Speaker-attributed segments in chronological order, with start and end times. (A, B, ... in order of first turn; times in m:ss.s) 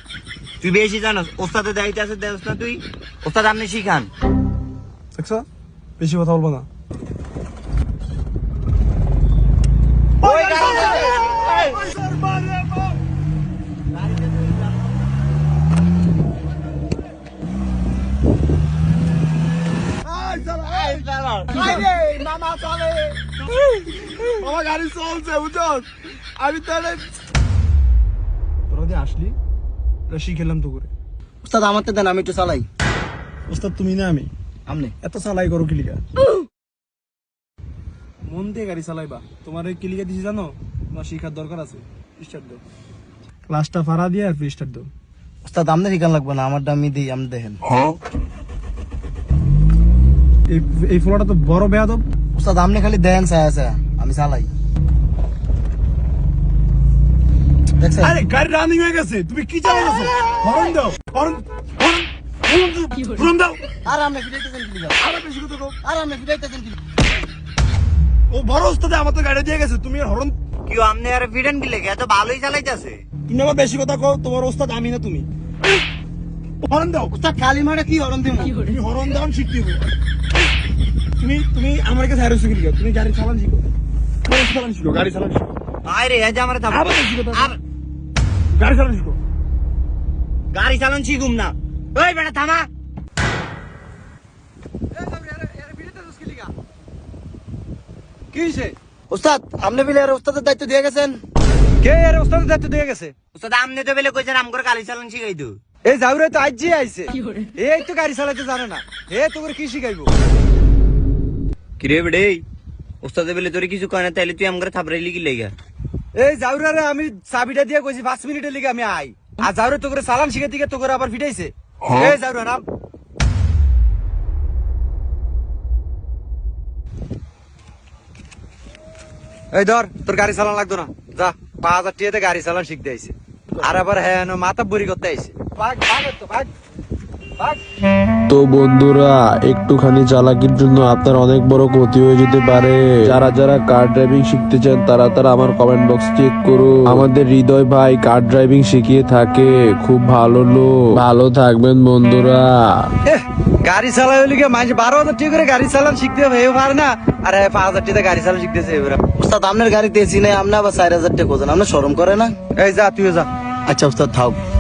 0:00.6-0:04.1 A
0:05.2-0:05.5 B
0:06.0-0:06.7 B
0:10.2-0:11.8 A
0:10.2-0:11.0 B
0:11.7-0:12.9 B
0:20.0-0:23.0 B
0:20.7-0:21.6 A
0:21.5-0:22.4 C
0:24.4-0:25.9 B
0:26.4-0:27.2 B
0:28.7-0:29.4 B
0:30.1-0:30.9 B
0:31.4-0:32.7 C
0:33.5-0:34.3 B
0:34.7-0:35.0 C
0:35.0-0:36.0 B
0:38.3-0:42.6 B
0:43.5-0:44.9 B
0:45.4-0:47.6 C
0:50.5-0:52.0 B
0:52.4-0:54.5 C
0:57.8-0:58.2 C
0:58.0-1:03.6 B
1:03.9-1:05.0 C
1:05.0-1:05.8 B
1:05.8-1:06.8 C
1:08.3-1:10.4 B
1:10.7-1:13.0 A
1:13.3-1:15.3 B
1:16.6-1:17.1 B
1:17.1-1:18.6 C
1:18.6-1:19.9 B
1:21.2-1:23.7 B
1:24.3-1:25.5 B
1:25.8-1:27.6 A
1:26.7-1:27.6 B
1:28.5-1:29.2 B
1:30.5-1:32.7 A
1:34.9-1:36.5 D
1:38.3-1:38.8 D
1:39.1-1:41.2 C
1:41.8-1:43.2 D
1:43.3-1:45.6 A
1:45.9-1:50.1 D
1:51.8-1:52.4 A
1:53.0-1:55.5 A
1:56.2-2:02.6 D
2:09.5-2:16.5 D
2:18.3-2:32.9 E
2:33.1-2:39.0 D
2:39.2-2:42.4 C
2:42.6-2:43.3 D
2:43.7-2:44.4 C